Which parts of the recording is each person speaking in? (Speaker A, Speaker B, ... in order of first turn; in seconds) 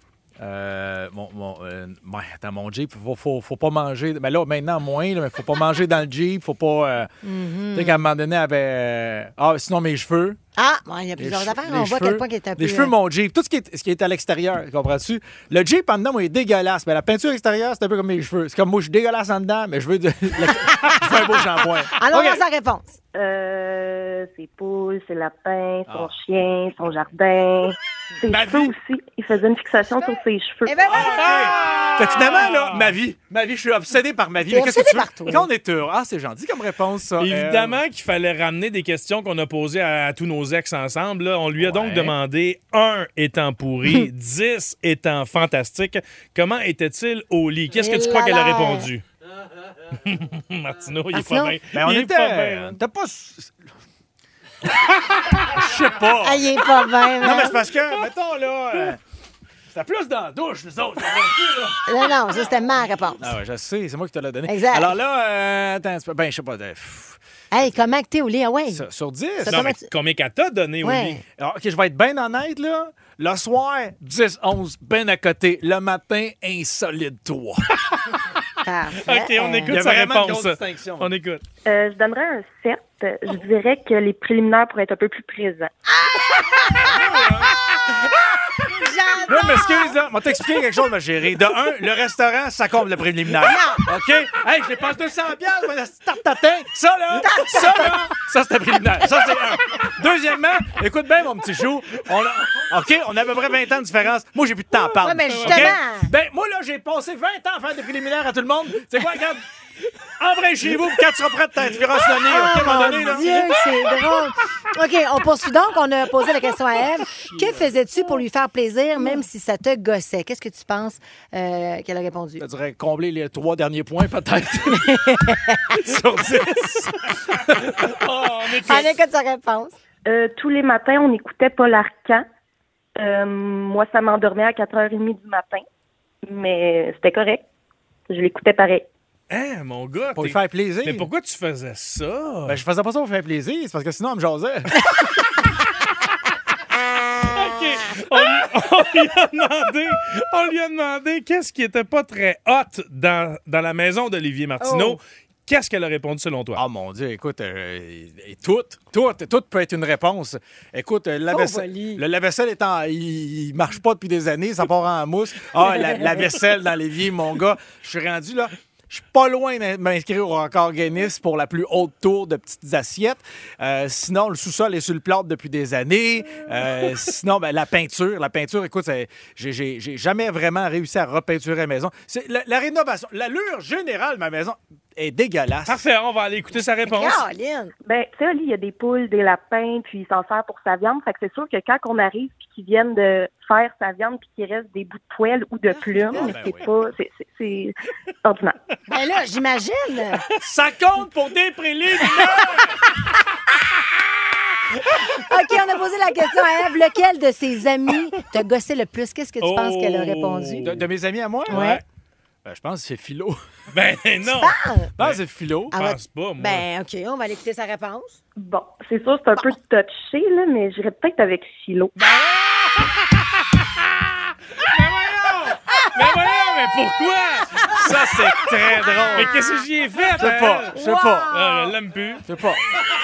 Speaker A: 0.4-7.1, 7.7-10.4, 11.2-22.4, 28.3-28.7, 31.0-37.8, 41.6-42.1, 51.7-53.5, 55.3-59.0, 59.7-62.0, 63.2-67.2, 68.7-69.7, 71.4-77.8, 79.7-81.1, 89.3-109.4, 110.2-113.5, 122.4-127.9, 140.2-141.1, 142.5-144.8, 156.6-185.8, 195.8-196.7, 200.4-202.6, 210.6-211.6, 212.4-213.4, 215.0-215.8, 227.7-229.3, 230.2-231.3, 232.3-232.6
Speaker B: 7.2-8.0, 10.6-12.9, 20.6-21.0, 21.9-22.9, 30.6-31.7, 34.5-35.5, 47.8-48.9, 51.1-51.6, 56.2-57.6, 61.9-63.3, 64.5-65.0, 67.5-68.8, 69.4-69.9, 70.8-71.2, 78.6-79.8, 85.9-87.0, 87.9-90.0, 93.3-93.8, 97.2-98.1, 105.0-106.1, 112.3-122.4, 124.8-125.7, 128.6-129.8, 154.6-155.0, 161.3-162.0, 165.8-166.1, 186.9-187.7, 198.9-200.2, 205.1-210.7, 211.5-211.8, 214.3-214.9, 215.7-218.2, 230.7-231.8
Speaker C: 23.1-30.8, 81.7-85.7, 130.1-132.3, 133.0-135.7, 136.3-137.4, 138.1-138.9, 187.8-198.6, 218.4-221.9
Speaker D: 30.9-33.0, 37.2-49.0, 50.0-52.8, 69.5-71.2, 79.0-81.4, 86.8-87.5, 105.3-105.8, 127.8-128.9, 139.3-142.6, 147.2-156.6, 185.7-187.2, 209.4-210.8, 211.5-211.8, 213.7-215.2, 215.7-216.7, 222.1-222.7, 224.6-227.7, 229.1-230.7, 231.3-232.2